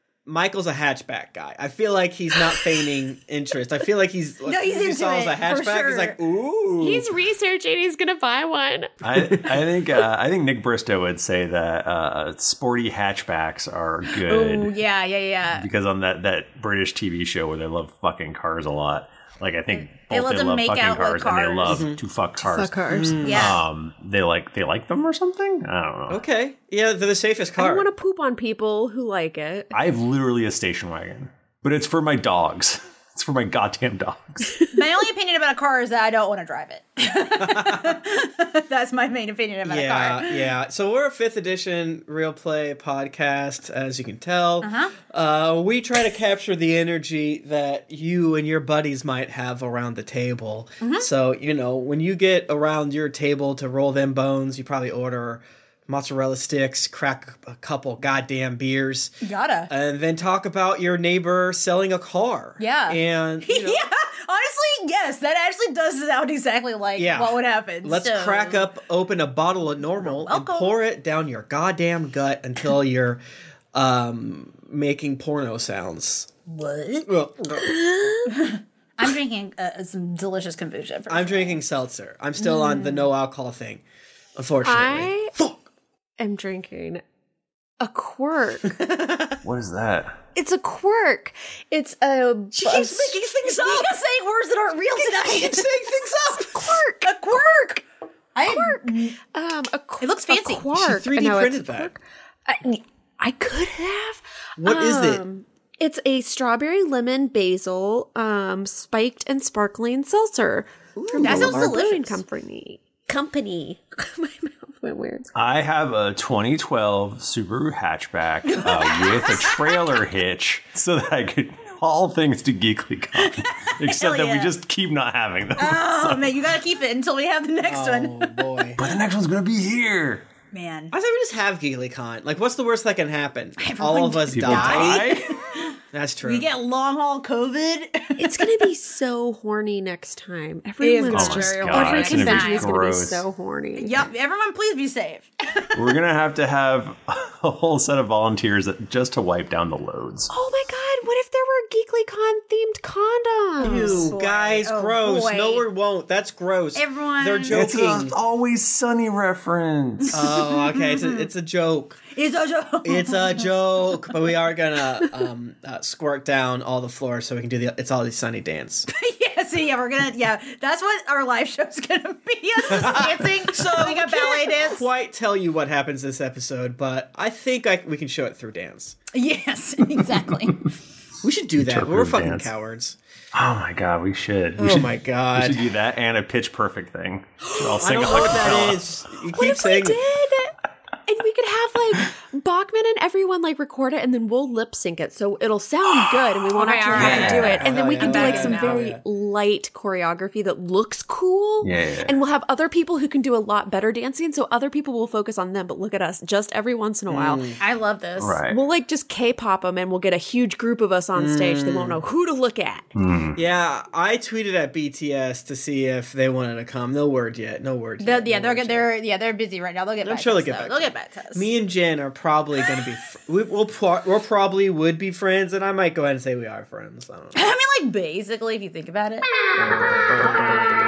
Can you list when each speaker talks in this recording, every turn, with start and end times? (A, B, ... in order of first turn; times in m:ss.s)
0:00.3-0:07.1 A
0:04.4-0:06.2 B
0:06.8-0:08.9 C
0:09.0-0:14.8 D
0:14.1-0:15.7 B
0:15.5-0:26.3 D
0:19.8-0:21.9 B
0:21.6-0:22.0 A
0:22.4-0:23.2 C
0:22.9-0:23.6 A
0:23.2-0:23.6 B
0:26.1-0:27.9 A
0:27.6-0:29.7 C
0:29.7-0:34.6 D
0:34.7-0:40.5 B
0:37.4-0:38.0 A
0:39.6-0:59.2 A
0:44.6-0:44.9 B
0:50.8-0:51.1 B
0:59.2-0:59.7 B
0:59.7-1:03.9 A
1:02.6-1:08.7 B
1:07.0-1:13.2 A
1:10.0-1:10.8 B
1:13.7-1:16.3 A
1:16.5-1:17.1 B
1:17.1-1:17.7 A
1:17.7-1:18.2 C
1:18.3-1:21.6 B
1:21.1-1:23.8 A
1:22.4-1:23.0 C
1:24.4-1:25.6 A
1:24.6-1:25.4 C
1:26.2-1:27.0 C
1:27.8-1:28.8 C
1:28.9-1:29.3 A
1:29.4-1:30.2 D
1:30.4-1:33.8 C
1:32.6-1:35.8 B
1:35.0-1:37.7 C
1:36.0-1:36.3 A
1:37.0-1:37.8 B
1:38.4-1:39.2 B
1:38.4-1:55.3 C
1:40.0-1:40.7 B
1:40.7-1:41.9 A
1:44.6-1:45.2 A
1:51.0-1:51.7 A
1:51.2-1:52.2 B
1:55.4-2:06.5 D
1:58.5-1:59.5 B
2:03.2-2:04.5 B
2:05.6-2:08.6 B
2:07.6-2:08.8 A
2:08.8-2:10.3 D
2:10.5-2:10.9 B
2:10.9-2:15.1 A
2:13.6-2:18.4 B
2:14.3-2:15.3 D
2:15.9-2:16.5 A
2:18.2-2:24.1 C
2:20.8-2:22.8 B
2:21.1-2:23.2 D
2:23.8-2:25.8 B
2:25.7-2:30.3 D
2:30.3-2:34.1 C
2:33.6-2:35.7 B
2:33.6-2:38.1 A
2:36.8-2:37.6 B
2:37.5-2:40.4 D
2:40.1-2:42.1 A
2:40.3-2:41.2 B
2:42.1-2:43.6 B
2:42.8-2:48.9 A
2:48.9-2:54.8 B
2:52.6-2:59.0 A
2:59.1-3:00.7 B
3:01.2-3:03.0 A
3:01.5-3:02.5 D
3:03.3-3:08.9 D
3:04.6-3:05.6 A
3:07.8-3:10.0 A
3:08.2-3:08.5 C
3:09.3-3:10.5 C
3:11.1-3:27.5 C
3:16.5-3:18.8 B
3:16.9-3:17.7 D
3:17.0-3:19.0 A
3:21.6-3:22.1 D
3:27.1-3:27.6 A
3:27.6-3:28.4 B
3:28.2-3:28.6 D
3:28.5-3:32.9 C
3:31.2-3:32.0 A
3:33.0-3:33.4 D
3:33.4-3:38.9 A
3:38.0-3:41.5 B
3:40.0-3:47.5 A
3:47.3-3:49.4 B
3:49.8-3:50.7 A